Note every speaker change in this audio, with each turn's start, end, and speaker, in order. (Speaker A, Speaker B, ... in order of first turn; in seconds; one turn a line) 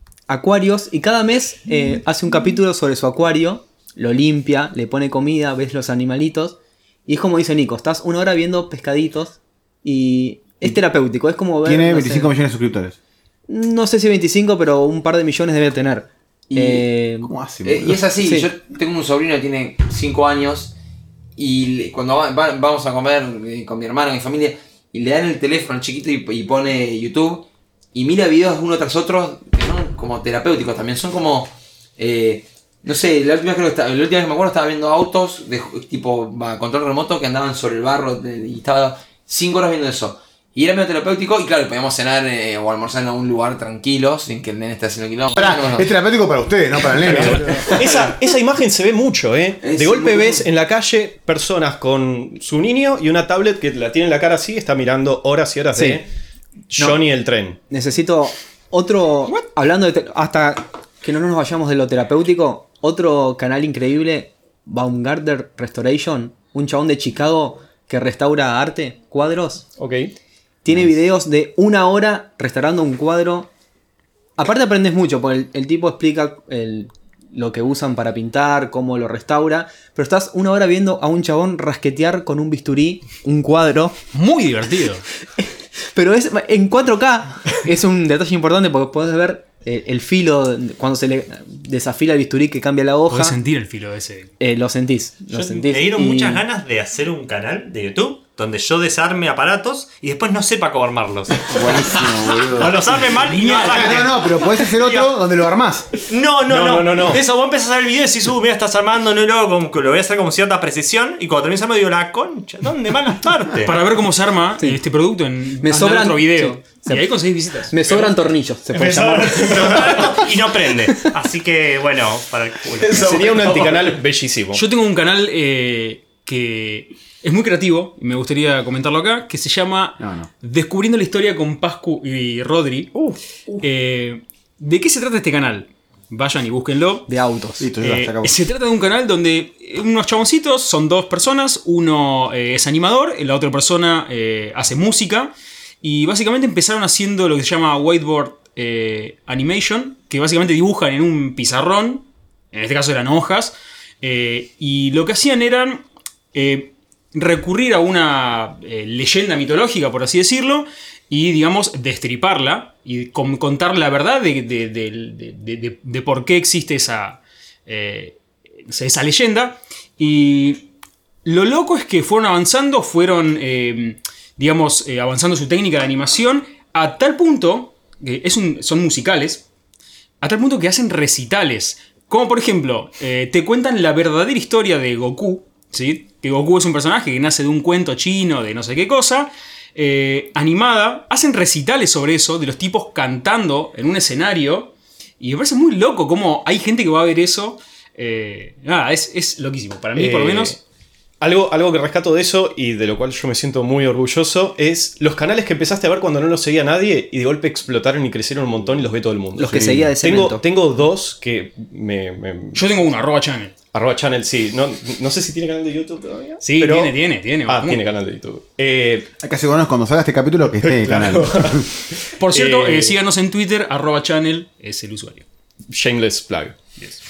Speaker A: 0.3-12.3
Speaker B: 11.6-13.0
Speaker A: 13.5-17.3
Speaker C: 16.5-16.9
Speaker B: 17.2-18.1
Speaker C: 17.6-20.7
Speaker C: 21.4-45.9
Speaker B: 45.3-47.7
Speaker C: 46.9-48.1
Speaker D: 47.1-56.0
Speaker C: 49.6-50.4
Speaker A: 55.7-56.0
Speaker D: 56.7-57.6
Speaker A: 57.7-69.7
Speaker D: 69.8-70.1
Speaker A: 70.6-73.5
Speaker A: 74.4-84.0
Speaker E: 84.1-85.0
Speaker A: 85.4-93.4
Speaker E: 93.1-94.3
Speaker A: 94.4-96.4
Speaker F: 95.3-105.1
Speaker B: 101.5-102.8
Speaker E: 103.1-104.0
Speaker B: 103.6-105.9
Speaker F: 106.0-113.8
Speaker D: 106.5-107.2
Speaker E: 113.6-118.1
Speaker A: 115.6-120.1
Speaker F: 118.7-123.9
Speaker D: 119.4-120.2
Speaker D: 122.7-124.7
Speaker E: 124.5-132.9
Speaker B: 130.0-130.3
Speaker E: 133.6-137.1
Speaker A: 137.1-137.7
Speaker B: 137.6-138.4
Speaker E: 137.8-170.7
Speaker E: 171.2-179.4
Speaker E: 180.2-200.6
Speaker D: 199.9-200.6
Speaker D: 201.2-212.6
Speaker A: 209.3-210.4
Speaker E: 212.5-213.5
Speaker D: 213.7-219.1
Speaker E: 216.4-217.8
Speaker B: 219.2-221.7
Speaker D: 220.6-223.0
Speaker E: 222.2-225.2
Speaker D: 225.7-226.6